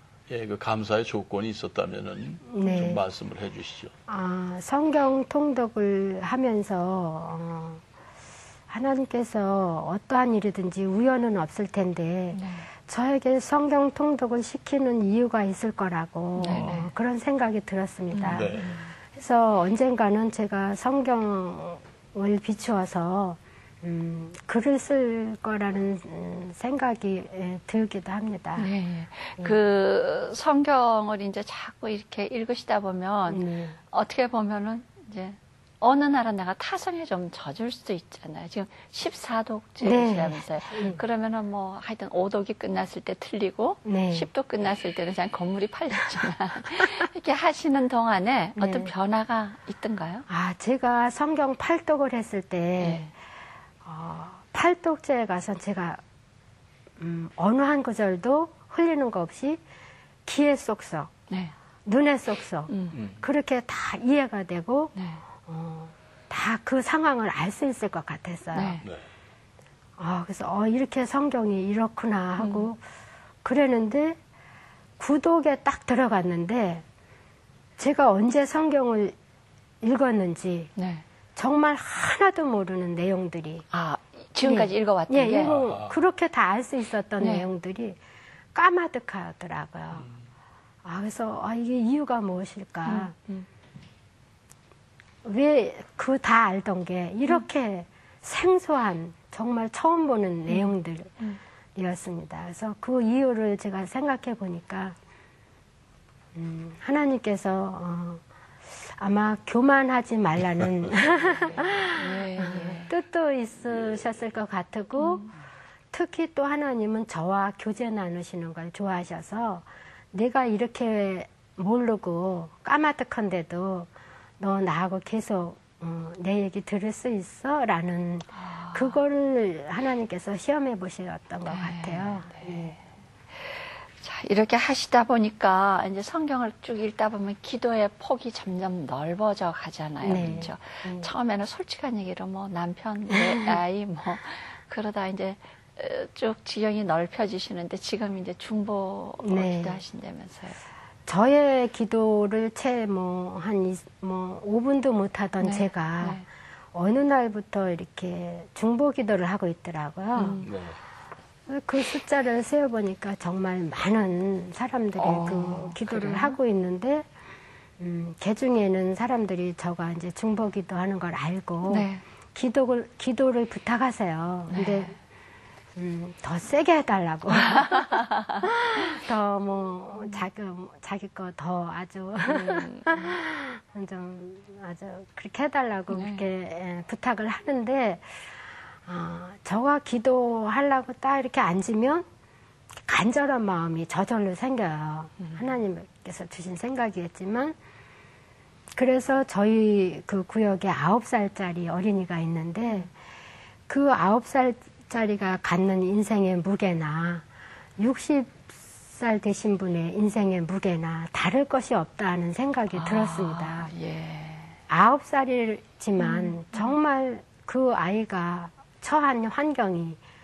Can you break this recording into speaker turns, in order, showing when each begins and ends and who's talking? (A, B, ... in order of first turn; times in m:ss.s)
0:00.3-0:03.9 A
0:02.5-0:03.0 B
0:02.6-0:03.0 C
0:04.1-0:07.8 B
0:08.7-0:28.7 B
0:12.3-0:12.7 C
0:16.4-0:16.9 C
0:18.1-0:18.8 C
0:18.3-0:18.7 A
0:28.6-0:50.2 C
0:33.3-0:33.8 B
0:39.8-0:41.0 B
0:43.8-0:44.3 B
0:48.6-0:48.9 B
0:50.3-0:53.1 B
0:52.8-0:53.1 C
0:53.8-0:56.0 B
0:57.0-0:59.6 B
1:00.2-1:01.1 B
1:01.8-1:04.9 B
1:02.7-1:03.0 C
1:02.9-1:03.2 A
1:05.0-1:05.2 C
1:05.4-1:08.8 B
1:08.5-1:08.8 C
1:10.0-1:12.8 B
1:12.4-1:12.7 C
1:13.4-1:14.2 B
1:15.0-1:16.8 B
1:17.8-1:19.1 B
1:19.8-1:20.7 B
1:20.8-1:21.0 C
1:21.4-1:23.6 B
1:23.7-1:25.6 C
1:24.4-1:28.0 B
1:25.4-1:26.0 A
1:27.2-1:27.4 C
1:28.5-1:30.1 B
1:30.8-1:33.1 B
1:32.8-1:33.4 C
1:35.2-1:41.2 B
1:41.8-1:45.0 B
1:46.3-1:48.2 B
1:48.8-1:55.2 B
1:52.0-1:52.9 C
1:55.0-1:55.3 C
1:55.9-2:12.7 B
2:08.3-2:09.0 C
2:11.5-2:12.8 C
2:14.0-2:30.6 C
2:20.0-2:21.1 B
2:23.1-2:23.5 B
2:29.2-2:29.8 B
2:31.0-2:36.2 B
2:35.4-2:36.2 C
2:36.7-2:40.4 B
2:40.1-2:40.5 C
2:40.4-2:40.8 A
2:41.5-2:47.1 B
2:45.0-2:46.4 C
2:47.8-2:54.9 B
2:51.7-2:52.0 C
2:54.5-2:54.9 C
2:55.8-3:08.0 B
3:02.3-3:02.9 C
3:05.9-3:06.2 C
3:08.8-3:12.0 B
3:12.8-3:17.5 B
3:15.2-3:15.5 C
3:18.7-3:22.9 B
3:23.7-3:27.2 B
3:27.8-3:33.7 B
3:32.7-3:34.6 C
3:34.7-3:40.0 B
3:36.0-3:36.7 C